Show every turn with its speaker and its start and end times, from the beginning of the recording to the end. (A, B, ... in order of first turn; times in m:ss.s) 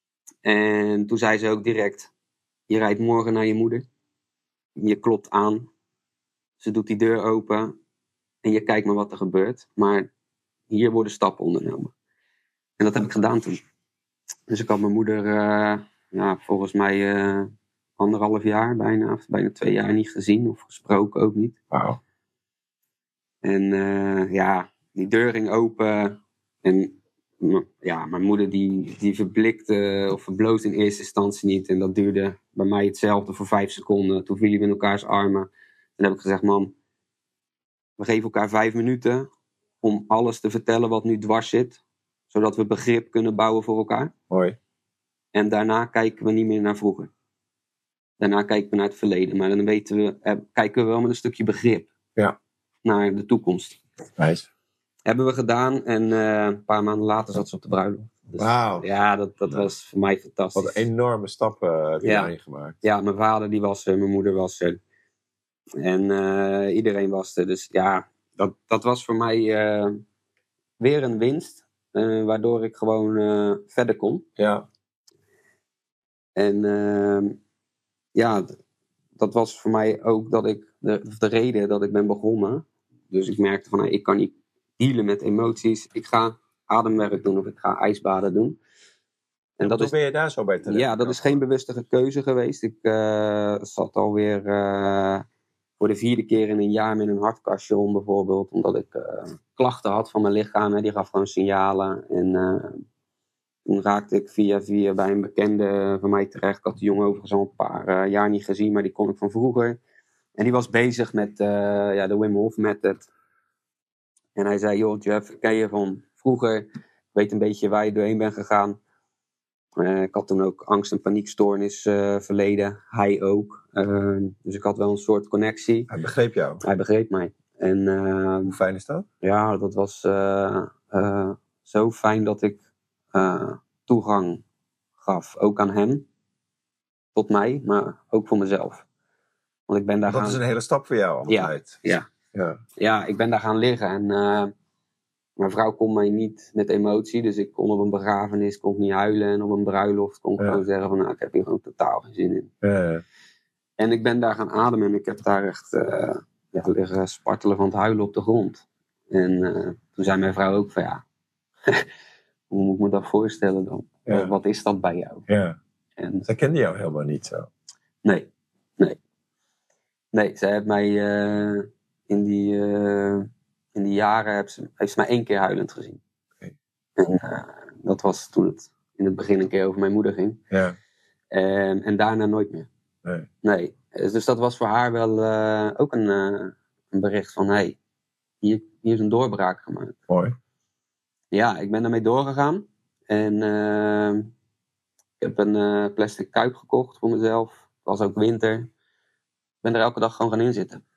0:00.4-0:02.1 A
0:02.7-0:03.8 A
0:04.8-0:05.7 A
0:06.6-0:07.7 A
0:08.4-0:10.1 A
0:10.7-0:11.9 A
0:12.8-0:13.6 A
0:14.5-0:21.6 A
0:21.7-0:22.0 B
0:23.4-0:36.7 A
0:38.0-0:39.3 A
0:39.8-0:44.1 A
0:44.3-0:44.6 B
0:45.3-0:47.1 A
0:48.2-0:51.9 A
0:52.8-0:53.8 A
0:54.2-0:54.5 B
0:55.0-1:00.8 A
0:58.3-0:58.9 B
1:00.5-1:02.8 B
1:02.0-1:02.3 A
1:02.8-1:04.8 A
1:05.8-1:10.0 A
1:10.8-1:14.3 A
1:14.4-1:14.6 B
1:16.4-1:17.4 A
1:18.1-1:18.5 A
1:19.2-1:28.6 A
1:29.6-1:29.9 A
1:29.6-1:31.4 B
1:30.6-1:35.2 A
1:35.8-1:42.8 A
1:43.6-1:49.8 A
1:50.4-1:53.1 A
1:54.3-1:58.8 A
1:59.8-2:05.9 A
2:05.9-2:06.6 B
2:06.6-2:08.6 A
2:08.4-2:09.0 B
2:09.2-2:12.6 A
2:13.1-2:14.4 A
2:15.0-2:16.0 A
2:17.1-2:18.8 A
2:19.7-2:20.4 A
2:20.0-2:22.6 B
2:21.3-2:22.1 A
2:22.8-2:24.5 A
2:25.4-2:32.5 A
2:32.6-2:33.0 B
2:33.8-2:41.0 A
2:42.5-2:45.3 A
2:45.3-2:45.6 B
2:46.0-2:46.2 A
2:46.2-2:47.5 B
2:48.0-2:49.0 A
2:50.1-2:56.0 A
2:57.0-3:00.4 A
3:00.5-3:00.8 B
3:01.3-3:02.7 A
3:03.4-3:07.8 A
3:08.4-3:10.0 A
3:10.1-3:10.3 B
3:11.3-3:14.3 A
3:15.2-3:18.7 A
3:19.6-3:20.8 A